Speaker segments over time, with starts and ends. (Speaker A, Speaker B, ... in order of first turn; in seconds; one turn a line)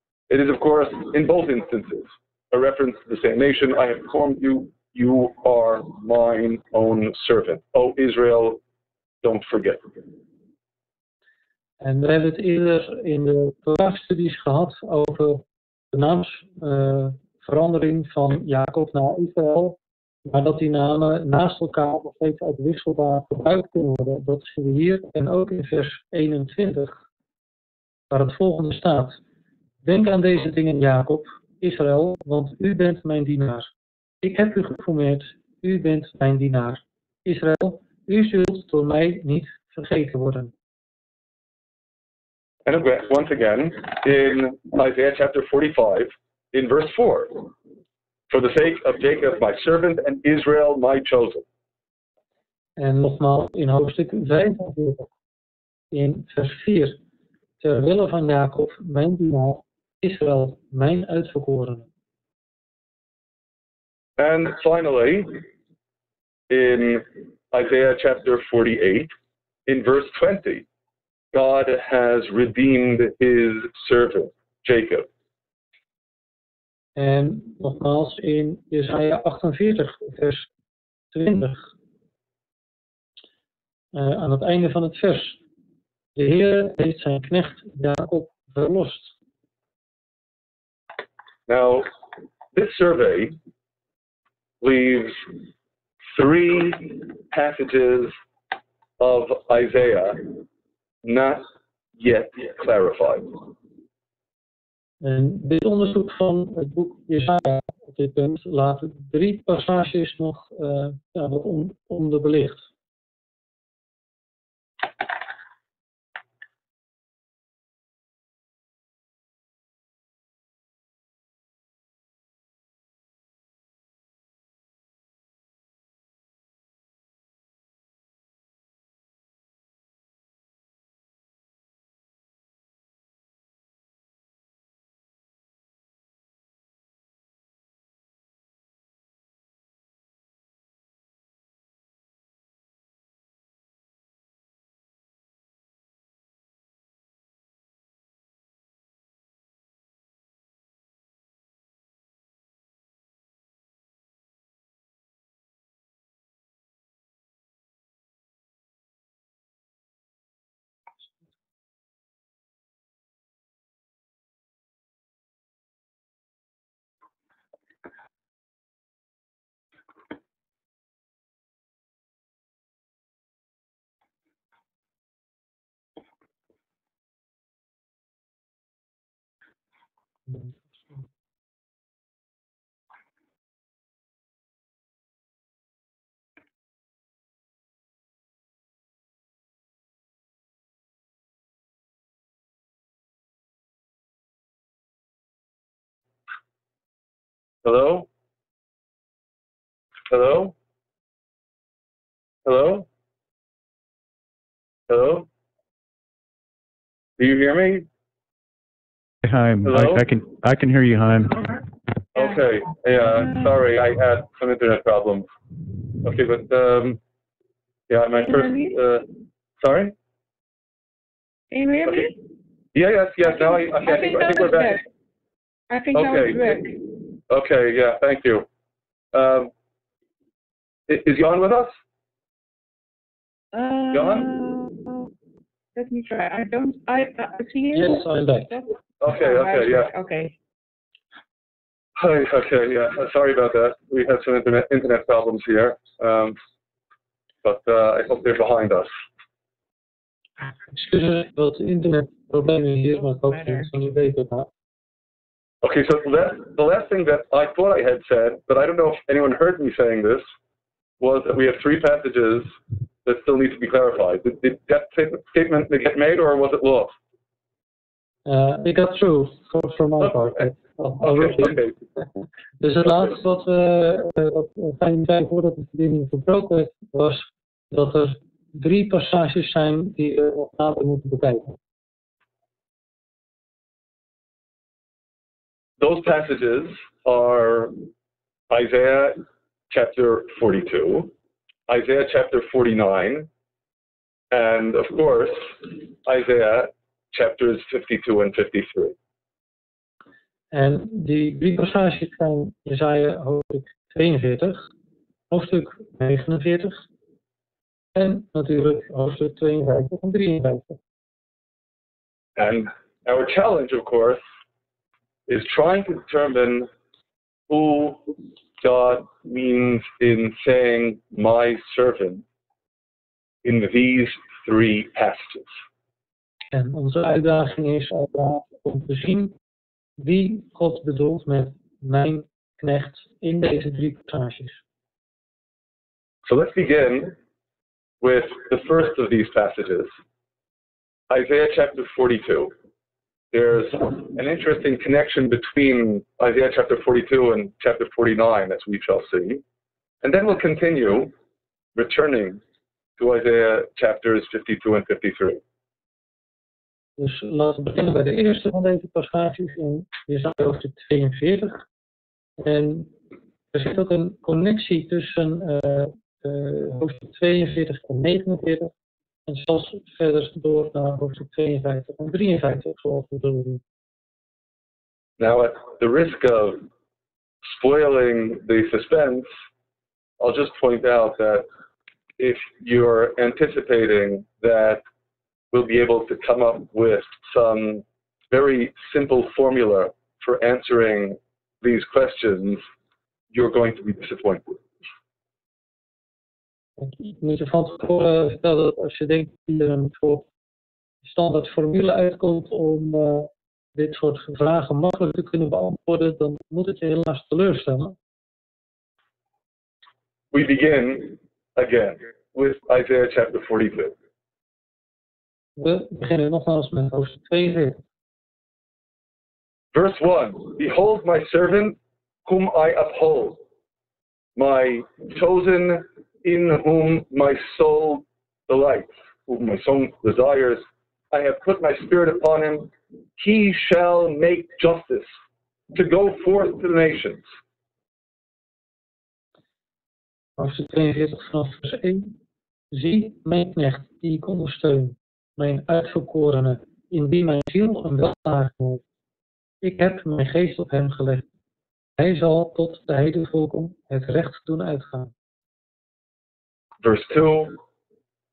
Speaker A: 0.3-8.6
Speaker A: 9.2-9.9
Speaker B: 11.8-27.0
Speaker B: 28.1-29.2
Speaker B: 29.8-33.7
Speaker B: 34.2-40.5
Speaker A: 42.6-47.5
Speaker A: 48.3-51.4
Speaker B: 52.8-55.1
Speaker B: 55.9-57.0
Speaker B: 57.6-61.9
Speaker A: 64.2-65.4
Speaker A: 66.5-69.1
Speaker A: 69.7-70.7
Speaker A: 71.3-75.1
Speaker B: 77.0-80.5
Speaker B: 81.1-81.7
Speaker B: 83.9-85.4
Speaker B: 86.2-89.2
Speaker A: 91.5-91.9
Speaker A: 92.5-93.4
Speaker A: 94.6-95.3
Speaker A: 96.1-98.1
Speaker A: 99.0-100.3
Speaker A: 101.0-101.5
Speaker A: 102.0-103.5
Speaker B: 105.0-112.7
Speaker A: 197.6-198.1
Speaker A: 200.1-200.5
Speaker A: 202.4-202.9
Speaker A: 204.9-205.3
Speaker A: 207.2-207.9
Speaker C: 209.2-211.5
Speaker A: 209.6-210.0
Speaker A: 212.1-215.3
Speaker A: 216.0-217.0
Speaker A: 217.9-219.1
Speaker D: 218.2-218.8
Speaker A: 219.6-219.9
Speaker D: 221.5-222.2
Speaker A: 222.7-224.8
Speaker D: 223.3-224.8
Speaker D: 225.7-226.7
Speaker A: 225.9-226.8
Speaker A: 227.3-228.4
Speaker A: 229.1-229.5
Speaker A: 230.9-231.8
Speaker D: 233.5-235.1
Speaker A: 233.9-234.3
Speaker D: 235.8-240.3
Speaker B: 237.7-238.6
Speaker A: 239.0-239.9
Speaker A: 242.0-246.3
Speaker A: 247.4-248.9
Speaker B: 250.7-254.5
Speaker A: 255.6-260.2
Speaker A: 261.0-262.5
Speaker A: 263.0-266.9
Speaker B: 268.2-271.6
Speaker A: 270.0-270.4
Speaker A: 271.0-271.8
Speaker B: 272.6-281.6
Speaker A: 285.8-287.8
Speaker A: 288.5-289.2
Speaker A: 289.7-291.1
Speaker A: 291.7-293.3
Speaker A: 294.3-298.9
Speaker B: 300.5-304.6
Speaker B: 305.3-306.8
Speaker B: 307.9-310.8
Speaker A: 312.4-314.2
Speaker A: 315.3-316.7
Speaker A: 317.5-322.2
Speaker A: 323.4-325.5
Speaker B: 326.5-329.3
Speaker B: 330.0-334.6
Speaker A: 336.2-337.1
Speaker A: 338.0-339.9
Speaker A: 341.1-342.5
Speaker A: 343.3-349.4
Speaker A: 350.0-351.1
Speaker A: 351.7-352.4
Speaker A: 353.0-355.4
Speaker B: 357.0-361.6
Speaker B: 362.4-362.9
Speaker B: 363.5-368.7
Speaker B: 369.3-373.6
Speaker A: 375.2-376.6
Speaker A: 377.4-379.3
Speaker A: 380.2-381.4
Speaker A: 382.2-384.8
Speaker A: 385.5-392.6
Speaker A: 393.3-394.6
Speaker B: 396.8-400.2
Speaker B: 401.0-407.9
Speaker A: 410.3-413.9
Speaker B: 415.6-417.8
Speaker A: 419.7-423.4
Speaker A: 424.4-435.1
Speaker A: 435.7-437.2
Speaker B: 440.4-442.1
Speaker B: 442.7-448.8
Speaker B: 449.6-451.2
Speaker B: 452.0-455.1
Speaker A: 456.8-457.6